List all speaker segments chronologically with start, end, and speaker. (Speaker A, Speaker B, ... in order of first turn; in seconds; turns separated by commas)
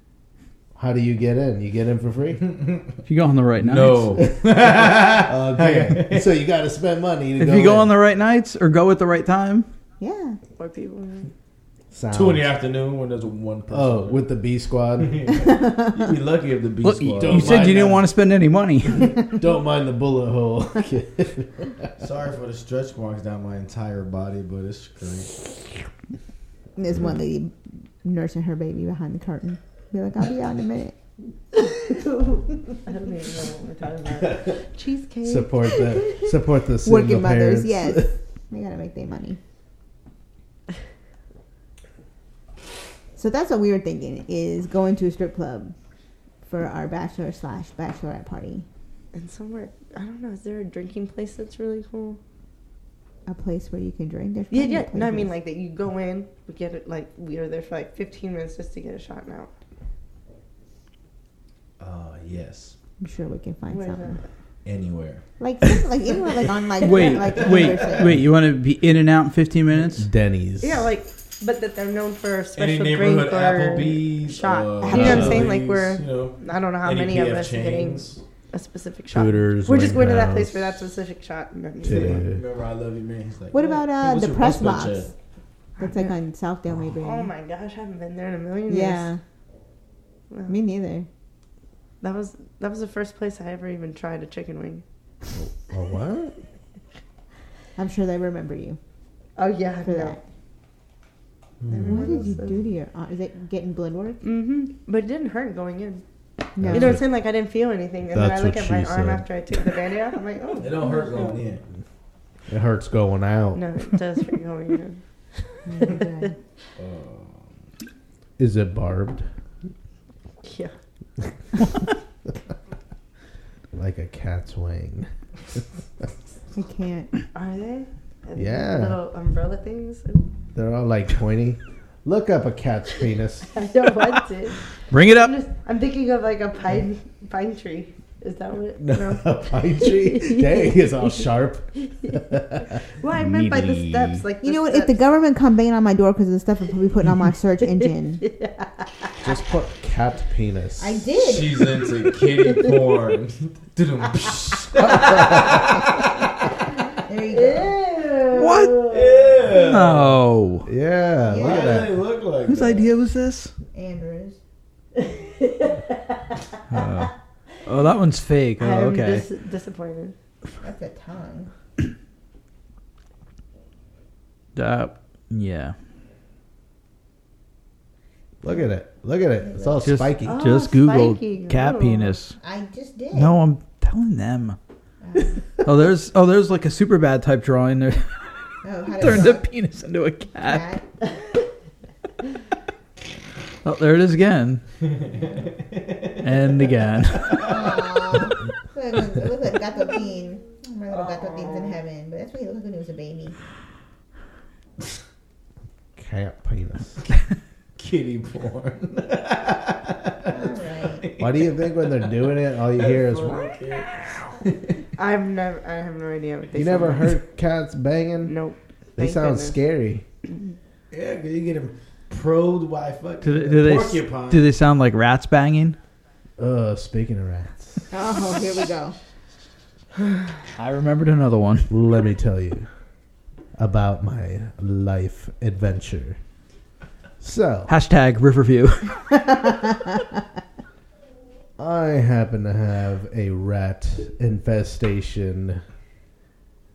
Speaker A: 0.8-2.5, Speaker B: 2.5-2.9, Speaker C: 3.0-4.2, Speaker B: 3.6-6.4, Speaker A: 4.2-7.9, Speaker C: 7.4-9.7, Speaker D: 10.0-10.4, Speaker E: 10.6-11.3, Speaker A: 11.9-12.5, Speaker B: 12.1-14.3, Speaker A: 13.7-15.4, Speaker B: 15.0-17.9, Speaker D: 15.6-15.9, Speaker C: 16.8-19.2, Speaker A: 17.1-18.1, Speaker A: 19.1-21.7, Speaker B: 22.0-25.4, Speaker D: 26.8-30.9, Speaker E: 31.7-36.1, Speaker A: 35.2-38.1, Speaker D: 36.8-39.4, Speaker D: 43.2-45.7, Speaker D: 46.4-48.6, Speaker E: 49.1-52.2, Speaker D: 53.2-55.3, Speaker E: 54.5-59.5, Speaker B: 61.8-62.8, Speaker D: 63.0-64.2, Speaker E: 63.7-64.3, Speaker B: 64.6-65.2, Speaker D: 65.4-68.2, Speaker C: 66.8-70.1, Speaker B: 67.2-68.0, Speaker A: 69.9-70.9, Speaker E: 70.6-82.2, Speaker B: 72.5-78.2, Speaker C: 74.9-75.4, Speaker A: 79.1-80.8, Speaker A: 81.8-82.4, Speaker B: 81.9-85.1, Speaker D: 83.5-85.1, Speaker E: 85.8-86.1, Speaker D: 85.8-87.3, Speaker E: 86.9-89.1, Speaker D: 88.7-89.2, Speaker E: 90.3-90.6, Speaker D: 90.5-91.1, Speaker E: 92.0-94.8, Speaker A: 95.3-96.3, Speaker D: 97.8-98.8, Speaker E: 99.4-100.2, Speaker D: 99.8-100.2, Speaker B: 101.6-102.2, Speaker E: 101.7-102.6, Speaker D: 101.9-104.2, Speaker E: 104.2-106.0, Speaker D: 106.6-107.0, Speaker A: 106.6-107.1, Speaker E: 106.7-111.4, Speaker A: 108.1-109.3, Speaker B: 110.6-111.6, Speaker A: 112.5-113.7, Speaker E: 113.5-116.3, Speaker D: 115.7-116.3, Speaker B: 116.8-117.5, Speaker A: 118.4-119.2, Speaker E: 120.4-120.7, Speaker A: 123.7-125.6, Speaker D: 126.5-127.1, Speaker E: 127.3-130.3, Speaker A: 128.3-129.0, Speaker A: 130.5-133.5, Speaker E: 133.5-141.3, Speaker C: 134.9-135.3, Speaker A: 138.8-142.8, Speaker E: 143.0-145.0, Speaker C: 143.2-144.2, Speaker D: 144.4-148.2, Speaker E: 147.8-149.1, Speaker A: 149.2-151.1, Speaker D: 150.8-151.8, Speaker B: 151.2-156.1, Speaker A: 154.8-155.6, Speaker D: 157.1-157.8, Speaker E: 157.3-159.5, Speaker C: 158.3-158.8, Speaker B: 158.9-160.2, Speaker C: 159.5-160.7, Speaker A: 160.6-162.0, Speaker D: 161.3-161.8, Speaker B: 161.3-162.9, Speaker C: 162.4-163.5, Speaker D: 163.7-164.4, Speaker E: 165.0-165.8, Speaker C: 166.7-169.2, Speaker E: 168.6-170.1, Speaker D: 170.6-171.5, Speaker C: 174.5-175.7, Speaker A: 178.4-180.4, Speaker D: 179.4-179.8, Speaker C: 179.8-182.4, Speaker E: 180.2-182.2, Speaker D: 182.4-183.3, Speaker C: 183.1-184.6, Speaker D: 185.0-185.4, Speaker C: 185.6-188.1, Speaker D: 188.6-189.5, Speaker C: 189.0-190.6, Speaker D: 190.4-190.8, Speaker C: 193.6-194.6, Speaker C: 196.2-197.4, Speaker D: 197.4-203.3, Speaker E: 200.9-201.8, Speaker A: 205.9-207.0, Speaker B: 207.8-212.2, Speaker D: 210.2-211.1, Speaker A: 211.2-213.4, Speaker B: 212.8-214.7, Speaker E: 213.2-213.8, Speaker E: 215.0-217.2, Speaker A: 216.5-218.3, Speaker E: 218.2-219.6, Speaker A: 219.0-220.0, Speaker B: 220.9-224.5, Speaker C: 223.2-225.8, Speaker A: 226.4-227.9, Speaker D: 227.9-228.9, Speaker C: 230.5-231.7, Speaker A: 231.7-232.7, Speaker A: 233.6-236.2, Speaker A: 237.2-237.7, Speaker C: 237.7-239.1, Speaker A: 241.6-245.6